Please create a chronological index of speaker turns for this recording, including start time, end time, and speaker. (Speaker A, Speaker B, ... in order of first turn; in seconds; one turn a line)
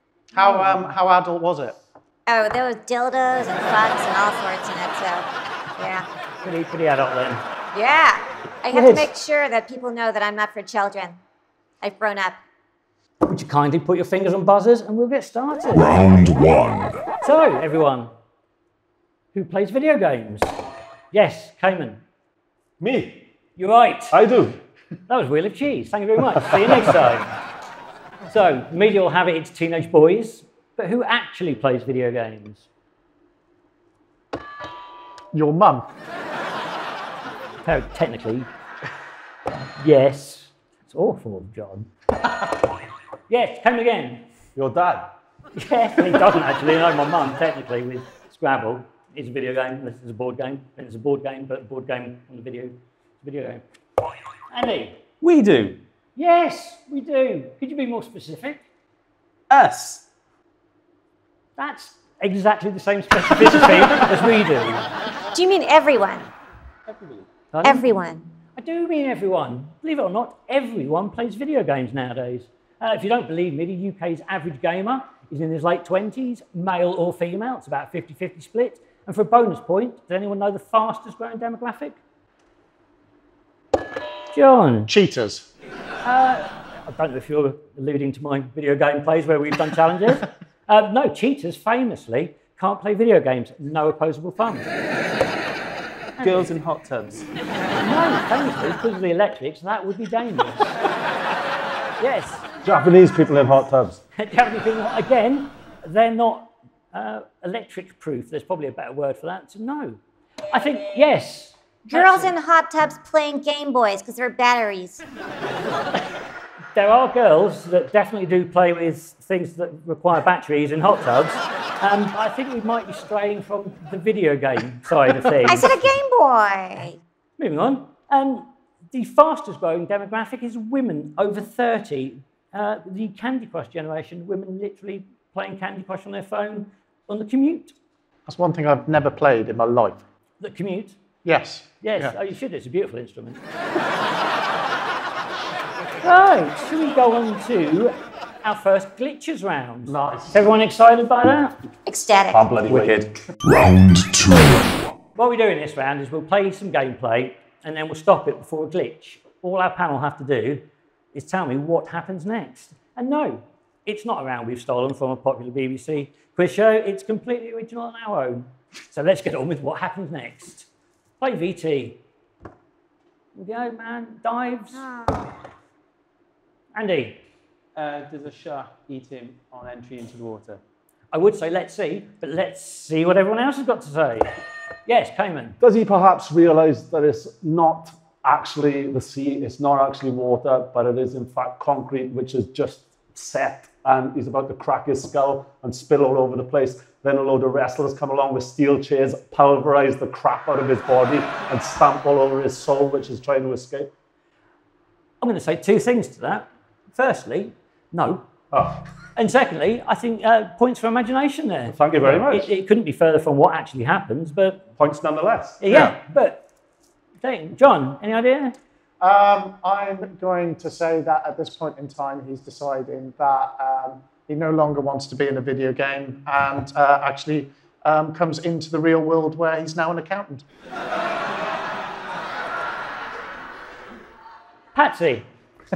Speaker A: 0.3-1.8
Speaker B: 0.4-0.8
Speaker C: 2.3-6.0
Speaker B: 6.4-7.4
Speaker C: 7.7-11.2
Speaker B: 8.7-9.1
Speaker C: 11.8-12.4
Speaker B: 13.2-15.8
Speaker D: 15.7-17.1
Speaker B: 17.2-18.1
Speaker B: 19.3-20.5
Speaker B: 21.1-22.0
Speaker E: 22.8-23.3
Speaker B: 23.6-24.2
Speaker E: 24.1-24.6
Speaker B: 25.1-27.3
Speaker E: 26.5-26.8
Speaker B: 28.3-32.7
Speaker A: 35.3-35.9
Speaker B: 37.6-38.5
Speaker B: 39.8-41.9
Speaker B: 43.3-44.2
Speaker E: 44.5-45.1
Speaker B: 45.5-53.6
Speaker B: 54.5-55.0
Speaker F: 55.2-55.8
Speaker B: 56.1-58.6
Speaker F: 59.5-60.0
Speaker B: 61.6-64.9
Speaker C: 65.3-66.3
Speaker F: 66.9-67.3
Speaker B: 67.5-67.9
Speaker C: 67.6-68.3
Speaker B: 68.5-82.0
Speaker B: 84.3-84.9
Speaker A: 84.9-85.5
Speaker B: 86.0-94.7
Speaker B: 96.2-96.5
Speaker F: 96.2-97.3
Speaker B: 97.8-100.7
Speaker B: 102.0-102.5
Speaker E: 102.6-104.0
Speaker B: 104.1-110.0
Speaker B: 110.5-112.3
Speaker C: 111.9-115.0
Speaker B: 116.7-125.7
Speaker C: 125.4-127.0
Speaker B: 127.4-137.7
Speaker A: 138.3-140.0
Speaker B: 140.4-141.0
Speaker A: 141.2-142.2
Speaker B: 141.8-143.4
Speaker B: 146.0-151.6
Speaker A: 149.9-150.4
Speaker C: 151.9-152.4
Speaker E: 152.3-153.2
Speaker D: 153.4-154.9
Speaker B: 155.2-170.7
Speaker B: 171.2-172.0
Speaker B: 173.3-174.8
Speaker C: 174.8-175.3
Speaker B: 176.7-177.2
Speaker F: 177.7-180.6
Speaker B: 181.1-184.3
Speaker B: 184.8-185.6
Speaker E: 185.6-203.9
Speaker B: 205.2-208.3
Speaker E: 208.5-208.8
Speaker B: 209.1-214.7
Speaker E: 211.7-212.5
Speaker E: 214.8-215.6
Speaker B: 215.6-216.4
Speaker A: 215.7-215.9
Speaker B: 217.2-218.5
Speaker A: 219.0-230.4
Speaker B: 234.8-235.3